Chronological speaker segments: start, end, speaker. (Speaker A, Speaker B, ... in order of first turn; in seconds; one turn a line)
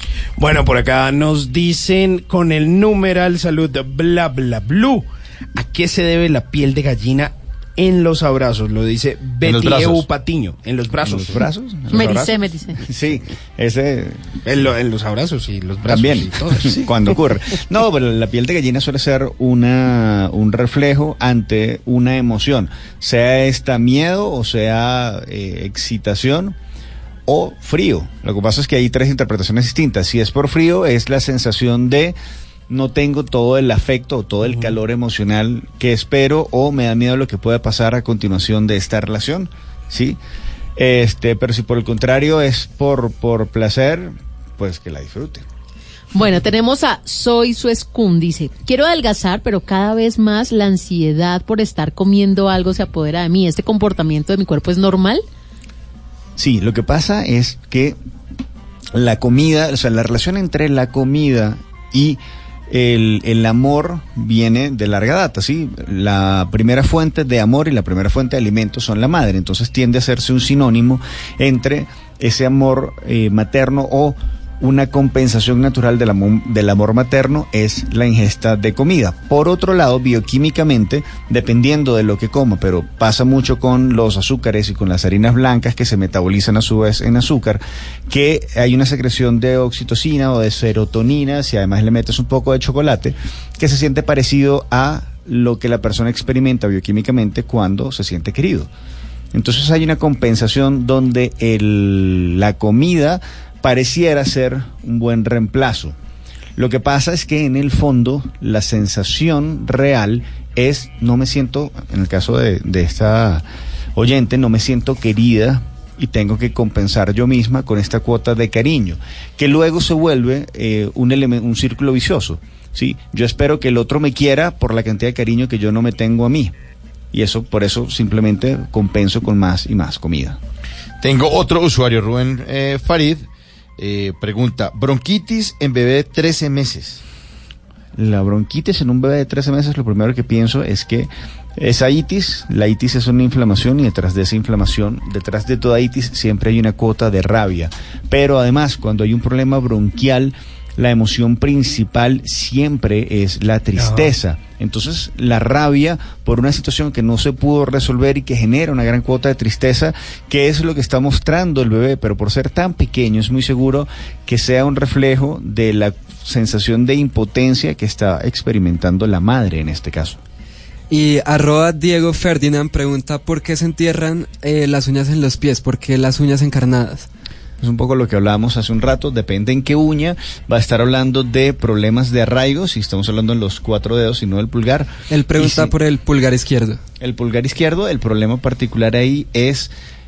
Speaker A: 0.4-11.4
Speaker B: 9.4-10.1
Speaker C: 11.1-14.2
Speaker D: 11.9-12.8
Speaker A: 14.4-16.8
Speaker C: 15.8-26.6
Speaker C: 27.3-32.2
Speaker C: 32.7-40.2
Speaker C: 40.8-45.4
Speaker D: 46.1-55.2
Speaker C: 56.4-58.0
Speaker C: 58.9-62.2
Speaker C: 62.7-98.7
Speaker C: 99.3-105.9
Speaker C: 106.6-113.4
Speaker C: 114.0-126.5
Speaker C: 127.1-130.4
Speaker B: 131.0-133.2
Speaker B: 133.8-137.0
Speaker C: 137.9-170.2
Speaker A: 153.8-154.0
Speaker E: 170.9-177.1
Speaker C: 177.6-185.7
Speaker E: 185.1-186.8
Speaker C: 187.0-189.7